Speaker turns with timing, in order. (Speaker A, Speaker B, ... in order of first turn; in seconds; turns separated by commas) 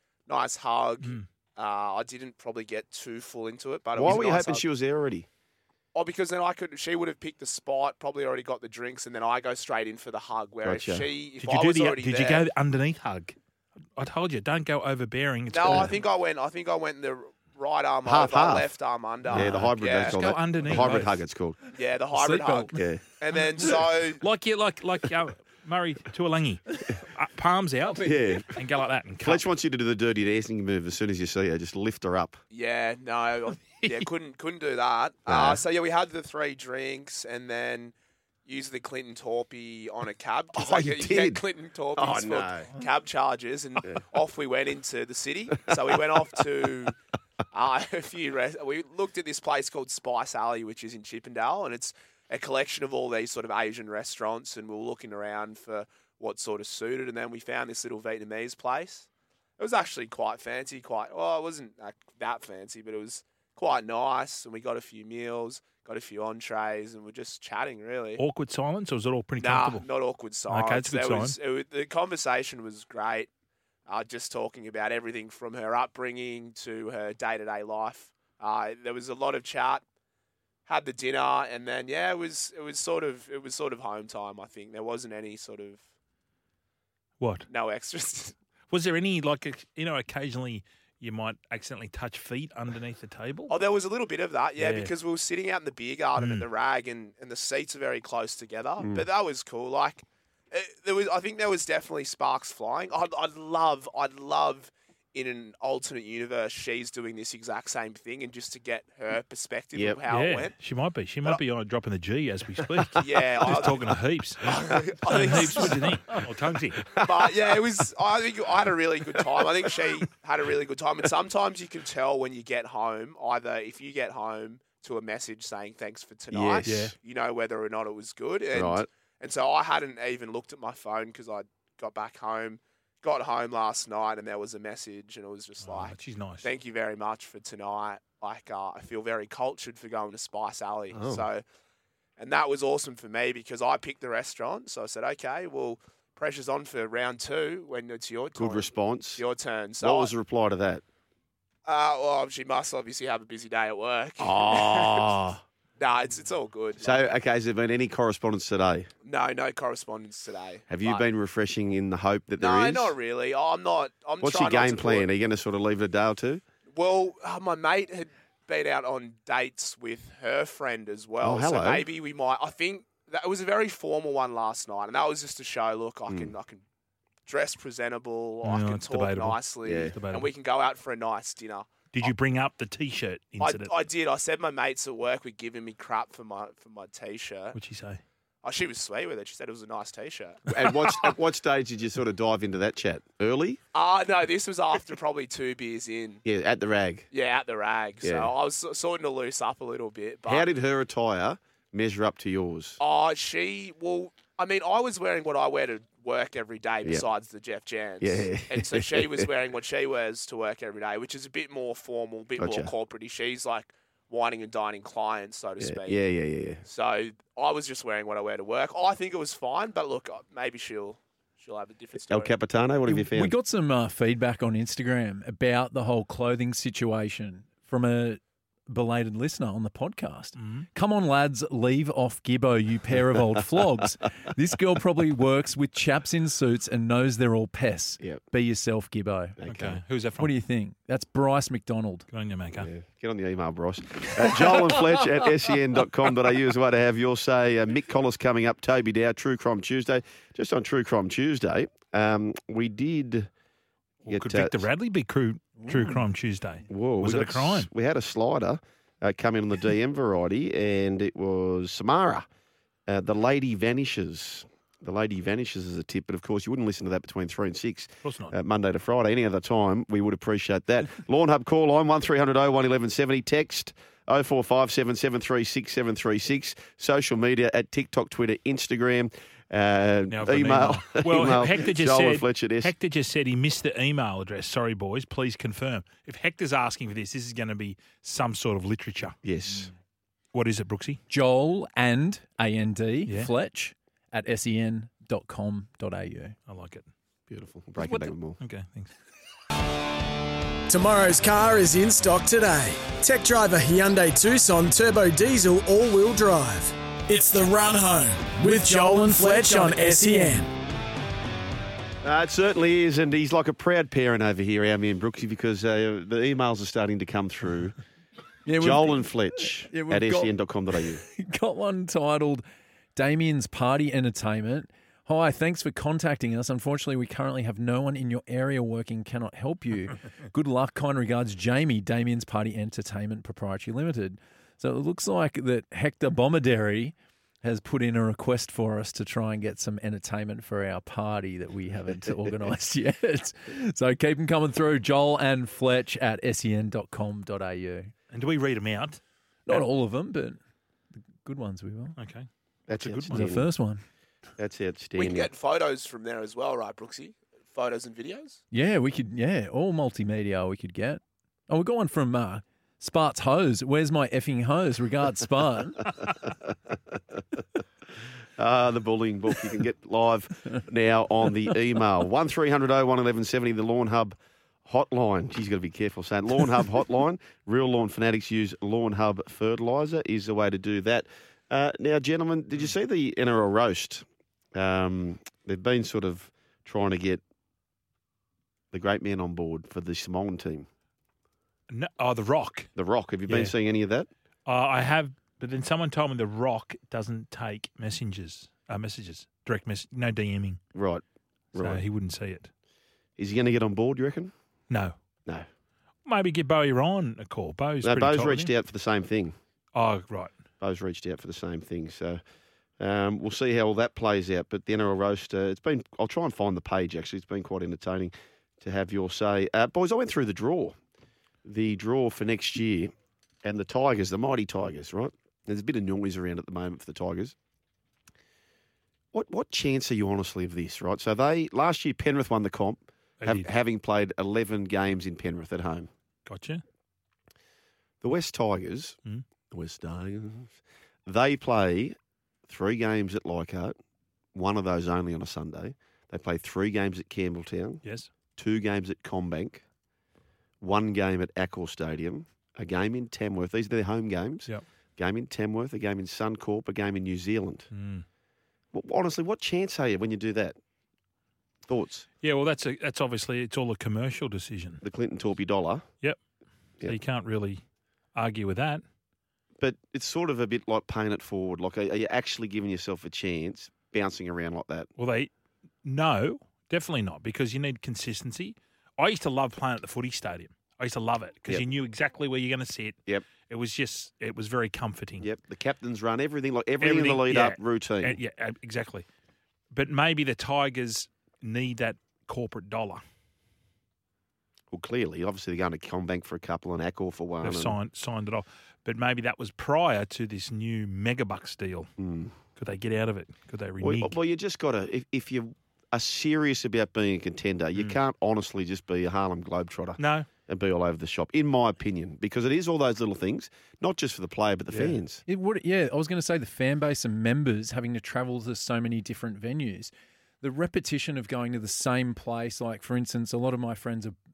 Speaker A: 0.3-4.7, Speaker B: 3.9-5.3, Speaker A: 5.9-12.4, Speaker B: 10.6-11.1, Speaker C: 11.4-13.3, Speaker C: 13.9-16.0, Speaker A: 15.5-20.2, Speaker B: 18.0-18.7, Speaker B: 19.3-21.6, Speaker C: 19.3-21.1, Speaker A: 21.7-24.2, Speaker D: 22.1-22.8, Speaker B: 22.7-23.0, Speaker C: 24.2-29.4, Speaker B: 28.0-28.6, Speaker B: 29.2-32.4, Speaker A: 32.5-37.9, Speaker B: 35.3-35.6, Speaker A: 38.5-47.0, Speaker B: 40.5-41.4, Speaker B: 42.0-42.7, Speaker B: 45.7-46.0, Speaker A: 47.5-59.1, Speaker A: 59.6-68.2, Speaker C: 68.2-69.9, Speaker A: 69.4-73.3, Speaker C: 70.5-71.3, Speaker A: 73.9-79.8, Speaker A: 80.7-85.8, Speaker C: 87.2-87.5, Speaker A: 87.5-88.3, Speaker C: 88.7-93.5, Speaker A: 93.5-110.5, Speaker C: 94.6-94.9, Speaker C: 96.2-96.5, Speaker B: 98.8-99.0, Speaker B: 109.7-110.0, Speaker C: 110.1-114.5, Speaker A: 112.9-115.9, Speaker C: 115.0-116.8, Speaker B: 116.9-117.5, Speaker A: 117.0-141.4, Speaker B: 126.3-126.7, Speaker C: 126.7-126.9, Speaker B: 128.5-128.9, Speaker C: 135.6-136.5, Speaker B: 140.9-141.2, Speaker A: 142.2-150.1, Speaker B: 148.3-149.2, Speaker B: 149.8-150.8, Speaker A: 151.7-155.1, Speaker B: 154.2-155.4, Speaker A: 155.8-157.1, Speaker B: 156.8-158.9, Speaker A: 159.0-161.0, Speaker B: 160.7-162.9, Speaker A: 162.4-165.1, Speaker B: 164.2-166.4, Speaker A: 166.7-176.6, Speaker B: 171.2-171.9, Speaker B: 176.1-176.3, Speaker A: 177.2-182.1, Speaker C: 178.4-179.4, Speaker B: 179.6-179.9, Speaker C: 179.9-180.3, Speaker C: 181.9-183.7, Speaker A: 183.4-187.6, Speaker C: 187.5-188.0, Speaker A: 188.4-190.5, Speaker B: 190.5-193.6, Speaker A: 193.7-196.2, Speaker B: 196.2-197.1, Speaker A: 197.1-200.4, Speaker B: 198.0-198.3, Speaker B: 200.2-202.8, Speaker A: 202.8-216.0, Speaker B: 208.0-209.3, Speaker B: 212.4-212.7, Speaker B: 215.6-216.6, Speaker A: 216.6-222.3, Speaker B: 222.1-223.3, Speaker D: 222.8-239.4, Speaker C: 230.4-230.7, Speaker B: 239.4-239.8, Speaker C: 239.5-240.3, Speaker D: 240.2-242.1, Speaker C: 242.1-242.7, Speaker B: 242.6-253.3, Speaker C: 254.0-257.7, Speaker B: 254.1-254.6, Speaker D: 255.6-256.0, Speaker B: 256.7-262.2, Speaker B: 262.9-282.7, Speaker C: 268.0-268.3, Speaker C: 280.1-289.7, Speaker B: 289.2-289.7, Speaker C: 290.3-291.0, Speaker D: 291.1-296.4, Speaker C: 296.5-296.9, Speaker B: 297.3-298.4, Speaker C: 297.8-298.9, Speaker E: 300.7-310.5, Speaker B: 312.0-317.8, Speaker D: 318.4-320.3, Speaker B: 318.6-321.0, Speaker D: 321.0-322.4, Speaker D: 322.9-347.9, Speaker C: 348.1-349.6, Speaker D: 349.5-350.4, Speaker D: 351.2-352.0, Speaker C: 352.0-353.2, Speaker B: 352.7-353.5, Speaker D: 353.1-353.8, Speaker B: 354.4-355.3, Speaker A: 355.0-358.4, Speaker D: 358.5-365.9, Speaker B: 368.4-387.2, Speaker B: 388.7-390.7, Speaker C: 391.7-392.7, Speaker B: 392.8-394.1, Speaker C: 393.3-393.5, Speaker C: 394.4-400.6, Speaker B: 400.7-401.8, Speaker C: 401.6-402.5, Speaker B: 403.2-404.3, Speaker C: 406.0-408.5, Speaker B: 407.8-409.3, Speaker C: 409.7-410.3, Speaker B: 410.6-412.2, Speaker B: 412.8-420.8, Speaker B: 421.4-422.9, Speaker B: 423.4-427.3, Speaker B: 429.1-435.9, Speaker C: 433.2-433.5, Speaker C: 436.2-436.6, Speaker B: 438.0-439.0, Speaker B: 439.5-441.9, Speaker B: 442.5-443.8, Speaker B: 444.3-447.8, Speaker C: 447.8-448.1, Speaker B: 448.4-449.6, Speaker B: 450.6-457.7, Speaker C: 457.7-458.0, Speaker B: 458.7-460.6, Speaker B: 461.7-462.1, Speaker C: 462.2-464.8, Speaker B: 464.8-465.9, Speaker C: 466.8-467.6, Speaker C: 468.1-468.8, Speaker B: 469.6-474.9, Speaker C: 475.0-475.3, Speaker C: 475.8-482.9, Speaker C: 483.5-485.3, Speaker B: 485.2-488.2, Speaker C: 486.8-489.0, Speaker C: 489.7-493.0, Speaker B: 494.7-497.8, Speaker C: 497.4-501.9, Speaker B: 502.0-502.3, Speaker C: 502.6-504.1, Speaker B: 503.8-515.2, Speaker C: 510.0-510.3, Speaker C: 514.7-515.0, Speaker D: 515.2-524.1